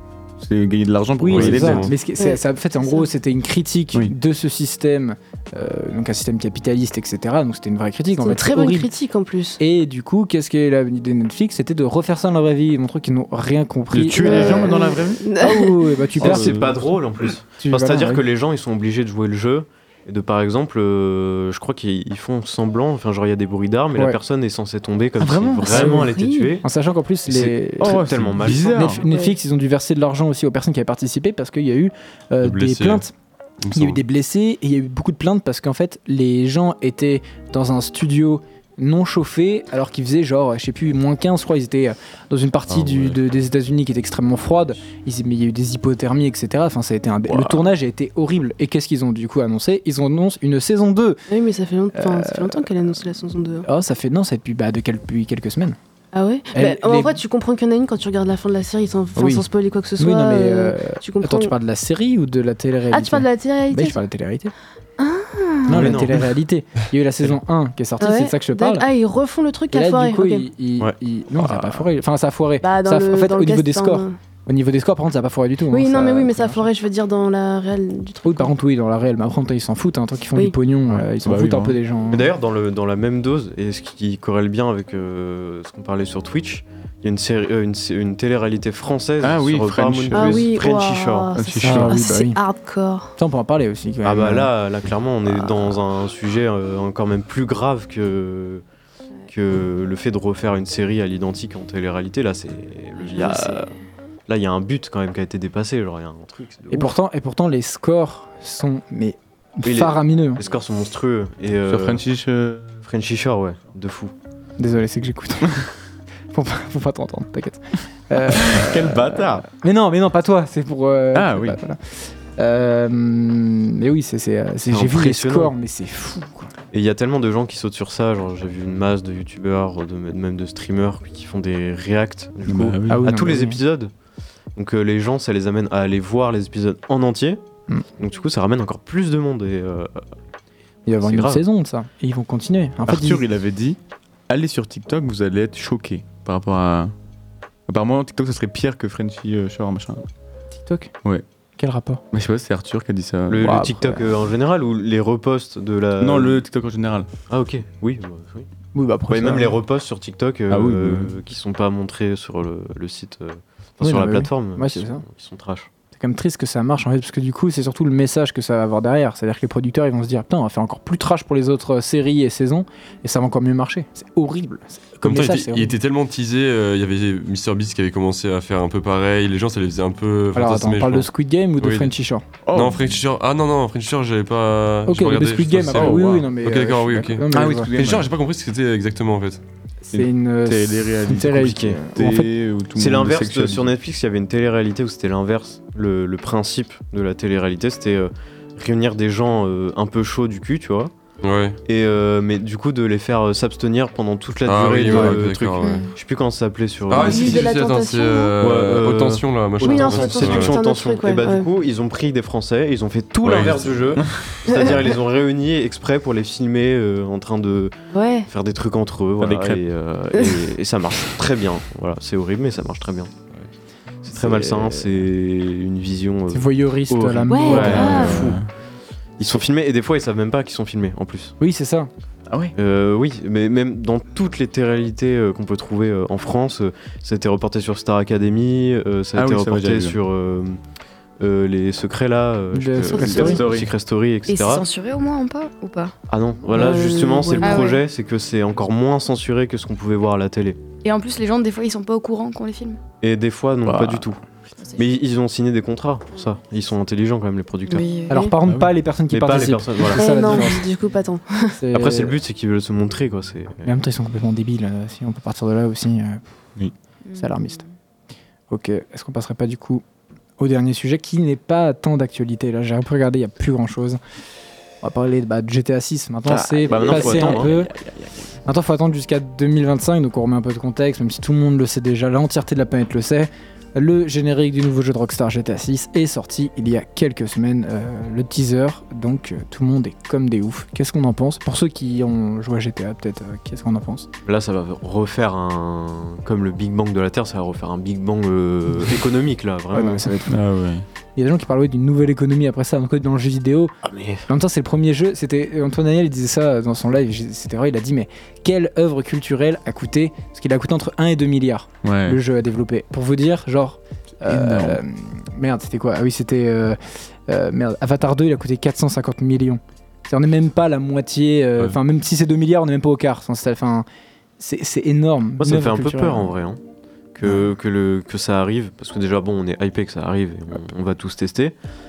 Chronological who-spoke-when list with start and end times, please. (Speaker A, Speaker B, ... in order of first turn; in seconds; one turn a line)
Speaker A: 0.4-1.9
Speaker B: 1.2-8.9
Speaker C: 1.3-1.9
Speaker D: 2.1-3.1
Speaker D: 8.2-9.6
Speaker B: 9.6-16.6
Speaker A: 13.9-15.2
Speaker D: 14.1-15.9
Speaker E: 16.2-26.6
Speaker A: 16.2-16.7
Speaker B: 17.6-18.2
Speaker B: 25.2-33.1
Speaker D: 25.6-26.6
Speaker E: 27.3-29.0
Speaker A: 27.8-29.0
Speaker D: 29.0-29.4
Speaker C: 32.4-33.0
Speaker C: 33.6-34.0
Speaker B: 33.7-51.2
Speaker C: 42.8-43.1
Speaker A: 47.3-47.6
Speaker D: 51.3-53.6
Speaker B: 51.9-53.0
Speaker B: 53.6-55.8
Speaker D: 56.1-61.5
Speaker B: 56.5-57.2
Speaker B: 59.1-64.5
Speaker D: 62.9-64.0
Speaker D: 65.0-65.9
Speaker B: 65.7-68.9
Speaker E: 65.7-66.2
Speaker D: 68.0-70.5
Speaker B: 69.7-76.7
Speaker D: 72.6-74.2
Speaker D: 75.7-78.5
Speaker B: 78.2-82.3
Speaker A: 80.9-81.8
Speaker E: 82.1-91.3
Speaker A: 89.2-90.5
Speaker D: 90.1-93.1
Speaker A: 91.3-92.0
Speaker B: 91.5-92.4
Speaker B: 93.2-94.5
Speaker E: 94.0-98.6
Speaker E: 99.3-103.7
Speaker F: 103.1-103.5
Speaker D: 103.2-103.5
Speaker E: 104.3-106.9
Speaker B: 106.7-110.4
Speaker E: 109.6-112.0
Speaker A: 111.7-112.8
Speaker E: 112.8-114.1
Speaker B: 114.6-115.5
Speaker B: 116.3-126.5
Speaker A: 118.3-119.5
Speaker A: 121.1-121.6
Speaker E: 124.7-125.5
Speaker E: 126.7-133.9
Speaker A: 132.5-133.1
Speaker B: 132.9-133.6
Speaker E: 134.6-137.4
Speaker E: 138.0-140.0
Speaker B: 140.8-143.2
Speaker E: 141.0-141.4
Speaker A: 142.9-143.8
Speaker A: 144.3-146.9
Speaker A: 147.7-150.0
Speaker B: 150.5-150.9
Speaker B: 151.6-152.0
Speaker A: 152.1-153.8
Speaker E: 153.3-156.4
Speaker B: 153.4-154.0
Speaker A: 156.0-157.1
Speaker E: 157.3-158.5
Speaker B: 158.7-159.5
Speaker E: 159.1-165.7
Speaker A: 160.5-161.1
Speaker B: 163.8-165.0
Speaker B: 165.9-175.7
Speaker C: 175.0-181.1
Speaker B: 180.3-182.3
Speaker C: 181.6-181.9
Speaker A: 182.4-182.9
Speaker C: 182.5-189.4
Speaker B: 184.8-187.7
Speaker A: 185.7-186.3
Speaker A: 187.3-188.1
Speaker B: 189.8-192.3
Speaker A: 189.9-193.7
Speaker E: 192.8-200.9
Speaker C: 201.2-201.6
Speaker E: 201.7-207.5
Speaker C: 204.4-205.8
Speaker F: 205.6-205.9
Speaker C: 206.9-210.5
Speaker D: 206.9-208.3
Speaker E: 208.4-217.7
Speaker D: 209.6-211.5
Speaker C: 213.2-214.0
Speaker A: 214.0-214.3
Speaker D: 214.5-214.8
Speaker D: 217.9-218.3
Speaker E: 218.2-223.1
Speaker A: 219.2-219.6
Speaker E: 224.0-228.4
Speaker B: 224.3-224.7
Speaker B: 226.3-228.4
Speaker D: 227.3-228.3
Speaker A: 227.4-228.5
Speaker E: 229.2-231.3
Speaker B: 231.4-231.9
Speaker A: 232.3-232.5
Speaker E: 232.5-240.6
Speaker A: 239.2-240.0
Speaker E: 241.2-244.6
Speaker B: 242.5-243.4
Speaker A: 243.0-243.7
Speaker D: 243.0-243.4
Speaker F: 244.3-245.9
Speaker E: 246.1-250.6
Speaker D: 246.5-247.8
Speaker F: 247.4-247.8
Speaker F: 250.8-252.8
Speaker E: 253.0-254.2
Speaker A: 253.6-254.1
Speaker F: 254.5-255.0
Speaker E: 254.8-257.9
Speaker F: 257.7-258.3
Speaker B: 258.1-260.7
Speaker A: 258.4-258.7
Speaker E: 259.1-260.4
Speaker D: 260.0-261.6
Speaker B: 261.6-262.2
Speaker E: 261.7-263.7
Speaker B: 263.6-266.2
Speaker F: 267.0-267.7
Speaker B: 267.1-267.6
Speaker B: 268.5-269.8
Speaker B: 270.4-274.0
Speaker B: 274.8-277.7
Speaker A: 276.3-278.3
Speaker E: 276.6-277.5
Speaker B: 278.4-294.1
Speaker E: 294.2-300.1
Speaker B: 299.7-300.4
Speaker A: 300.3-300.8
Speaker B: 301.1-303.7
Speaker E: 303.8-304.2
Speaker B: 304.3-323.9
Speaker A: 311.8-312.2
Speaker A: 314.2-314.8
Speaker B: 324.4-326.3
Speaker E: 325.4-326.6
Speaker E: 327.1-331.5